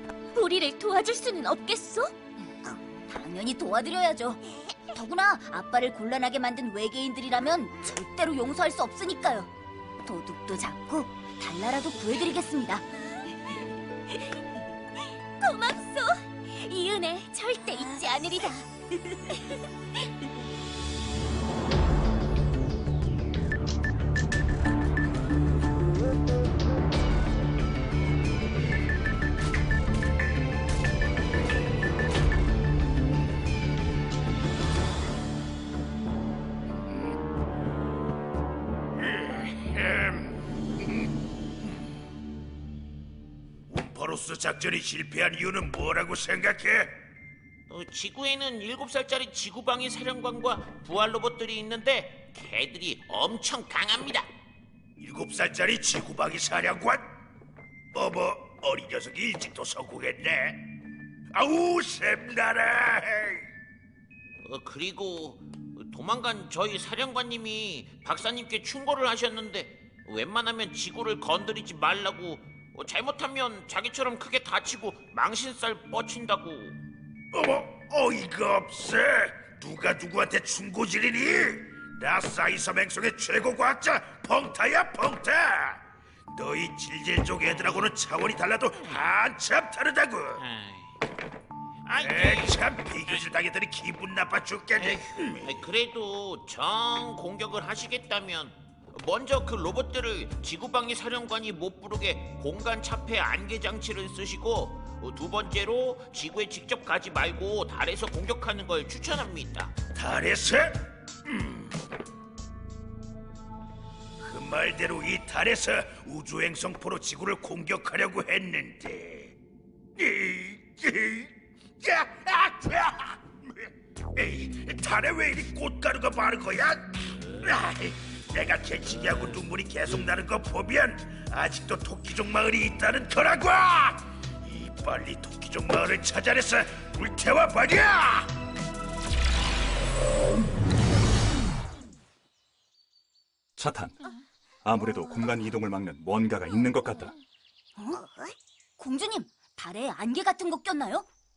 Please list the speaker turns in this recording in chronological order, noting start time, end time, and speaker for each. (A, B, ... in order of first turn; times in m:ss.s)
0:00.3-0:02.1 A
0:02.6-0:04.4 B
0:04.9-0:09.5 B
0:10.0-0:12.8 B
0:15.4-0:18.6 A
0:43.7-0:47.0 C
0:47.7-0:54.3 D
0:55.0-0:57.0 C
0:57.9-1:00.6 C
1:01.3-1:03.4 C
1:04.4-1:16.8 D
1:17.3-1:30.4 C
1:31.9-1:32.5 D
1:32.0-1:35.5 C
1:34.8-1:49.8 D
1:49.9-1:51.6 C
1:54.3-1:59.3 C
2:00.0-2:01.3 C
2:01.8-2:03.2 C
2:04.2-2:18.3 C
2:23.6-2:24.0 E
2:24.6-2:27.1 E
2:27.8-2:28.0 B
2:28.8-2:31.1 B